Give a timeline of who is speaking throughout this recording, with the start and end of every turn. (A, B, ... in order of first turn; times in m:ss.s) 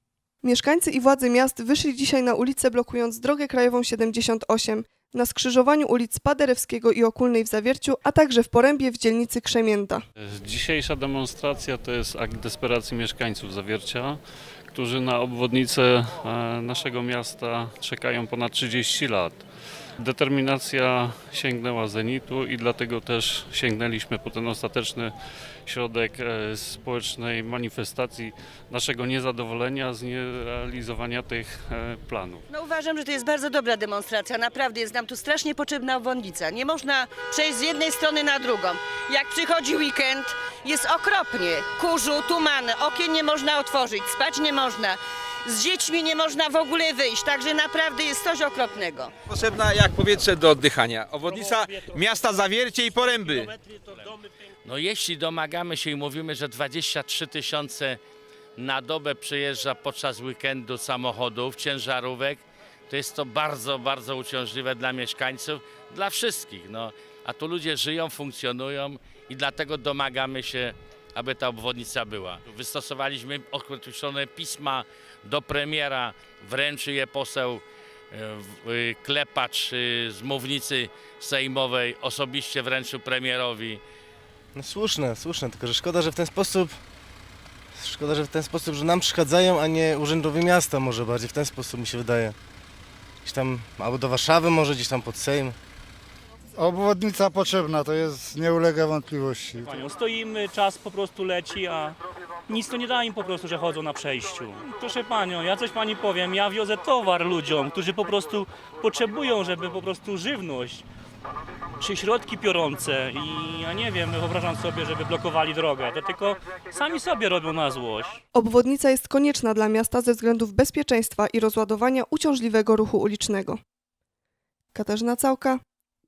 0:00.4-0:10.0 A
0:10.2-0:14.2 B
0:14.7-0:19.4 B
0:20.0-0:25.1 B
0:25.7-0:32.4 B
0:32.5-0:49.1 C
0:49.3-0:53.5 D
0:54.6-0:58.0 E
0:58.6-1:23.8 E
1:24.6-1:26.8 F
1:27.8-1:32.4 F
1:33.2-1:35.6 F
1:36.6-1:39.8 G
1:39.7-1:42.0 H
1:42.5-1:50.8 H
1:51.8-1:58.2 H
1:58.3-2:03.6 A
2:04.7-2:05.6 A